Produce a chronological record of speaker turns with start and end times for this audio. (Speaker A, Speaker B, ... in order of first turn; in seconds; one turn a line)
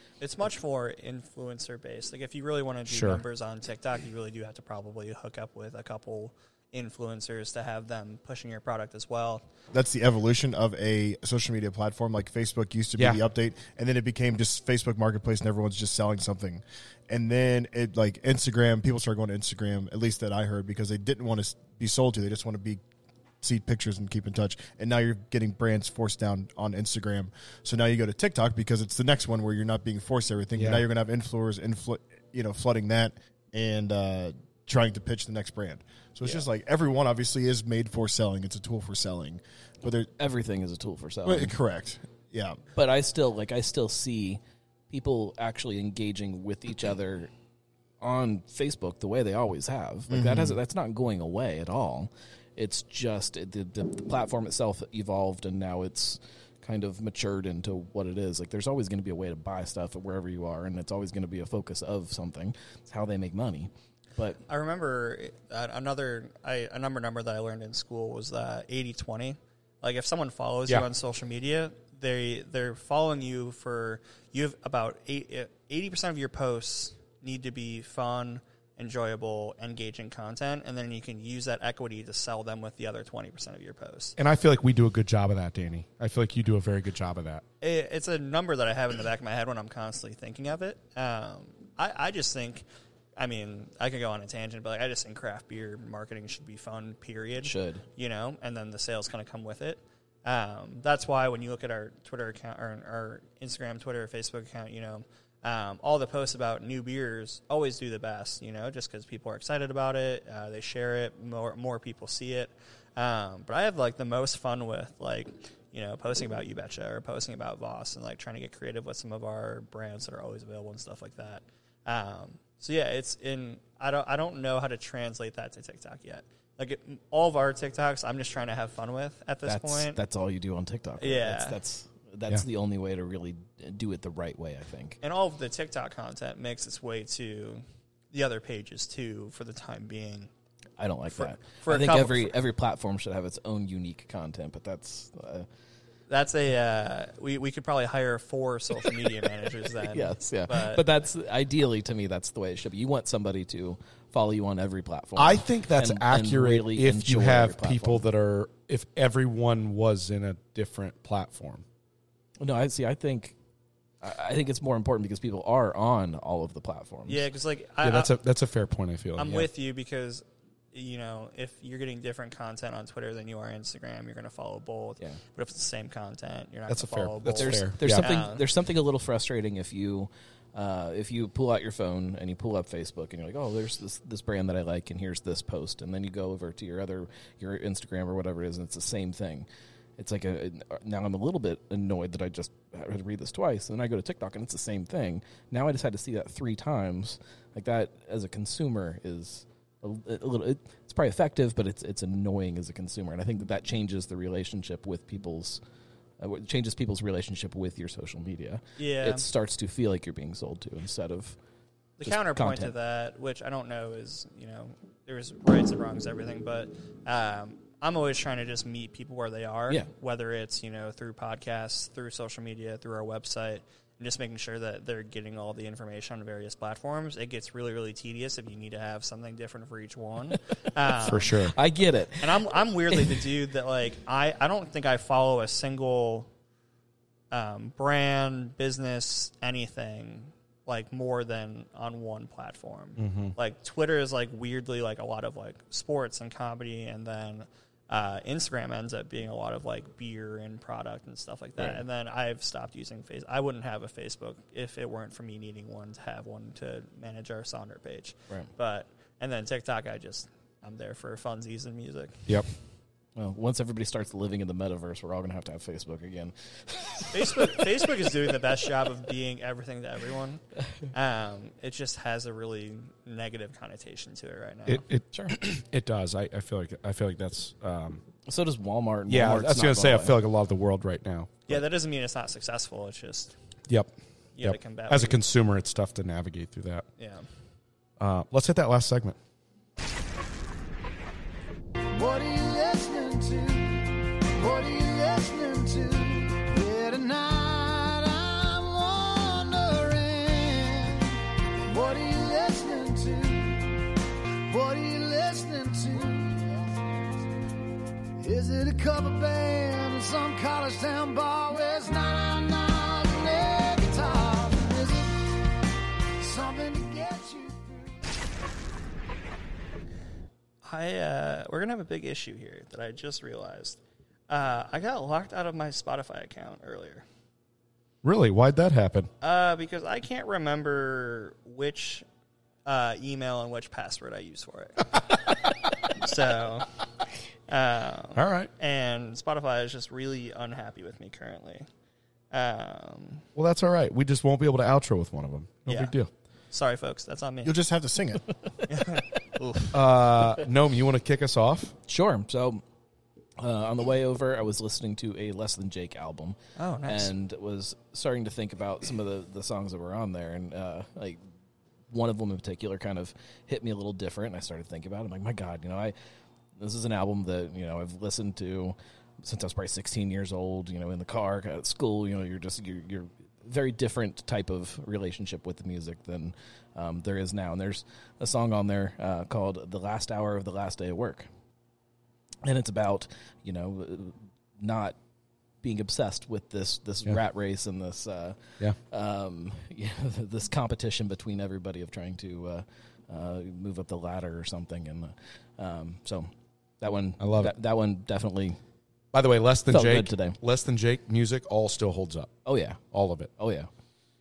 Speaker A: 0.2-9.4
Speaker B: 2.9-3.2
Speaker C: 9.7-22.8
Speaker B: 12.9-13.2
Speaker C: 23.4-40.1
Speaker B: 30.5-30.9
Speaker D: 40.2-41.5
Speaker C: 41.2-42.6
Speaker D: 42.7-47.3
Speaker D: 48.0-64.4
Speaker C: 50.1-50.6
Speaker A: 64.5-84.2
Speaker B: 84.2-87.4
Speaker A: 87.6-92.6
Speaker A: 93.2-130.0
Speaker D: 97.3-97.8
Speaker D: 129.4-135.0
Speaker A: 131.0-131.6
Speaker A: 135.0-140.3
Speaker D: 140.8-145.5
Speaker A: 141.1-142.3
Speaker A: 146.1-150.8
Speaker D: 149.9-158.0
Speaker B: 155.2-161.6
Speaker D: 162.4-163.3
Speaker D: 164.0-167.2
Speaker A: 167.1-168.1
Speaker B: 167.8-169.5
Speaker A: 169.2-178.4
Speaker B: 176.7-178.1
Speaker D: 177.4-189.5
Speaker D: 190.0-205.6
Speaker D: 206.2-211.4
Speaker A: 208.8-209.2
Speaker A: 212.0-231.5
Speaker D: 212.0-212.7
Speaker B: 231.0-231.5
Speaker D: 231.4-233.2
Speaker A: 232.2-236.3
Speaker A: 237.3-262.3
Speaker B: 243.0-243.3
Speaker D: 263.1-267.6
Speaker A: 267.1-274.8
Speaker B: 274.6-278.0
Speaker D: 275.1-275.4
Speaker D: 278.2-280.2
Speaker B: 279.1-281.6
Speaker A: 281.5-283.3
Speaker B: 283.7-286.9
Speaker A: 284.4-285.2
Speaker A: 287.0-287.2
Speaker B: 288.0-289.2
Speaker E: 291.9-301.1
Speaker E: 301.7-306.9
Speaker E: 308.2-318.1
Speaker A: 320.6-327.0
Speaker B: 328.0-329.1
Speaker A: 329.2-332.0
Speaker A: 332.6-335.2
Speaker A: 335.9-336.6
Speaker A: 337.5-341.7
Speaker B: 338.1-338.5
Speaker A: 342.3-343.2
Speaker B: 343.4-346.1
Speaker A: 345.6-345.9
Speaker A: 346.5-347.5
Speaker C: 347.4-348.3
Speaker A: 348.7-349.8
Speaker B: 349.7-351.7
Speaker D: 351.9-352.6
Speaker D: 353.4-361.2
Speaker A: 356.6-357.1
Speaker D: 361.9-365.9
Speaker D: 366.6-381.3
Speaker D: 382.4-385.0
Speaker D: 385.6-398.6
Speaker B: 397.2-397.5
Speaker B: 399.1-403.3
Speaker D: 399.7-400.4
Speaker D: 402.4-402.8
Speaker D: 403.4-403.7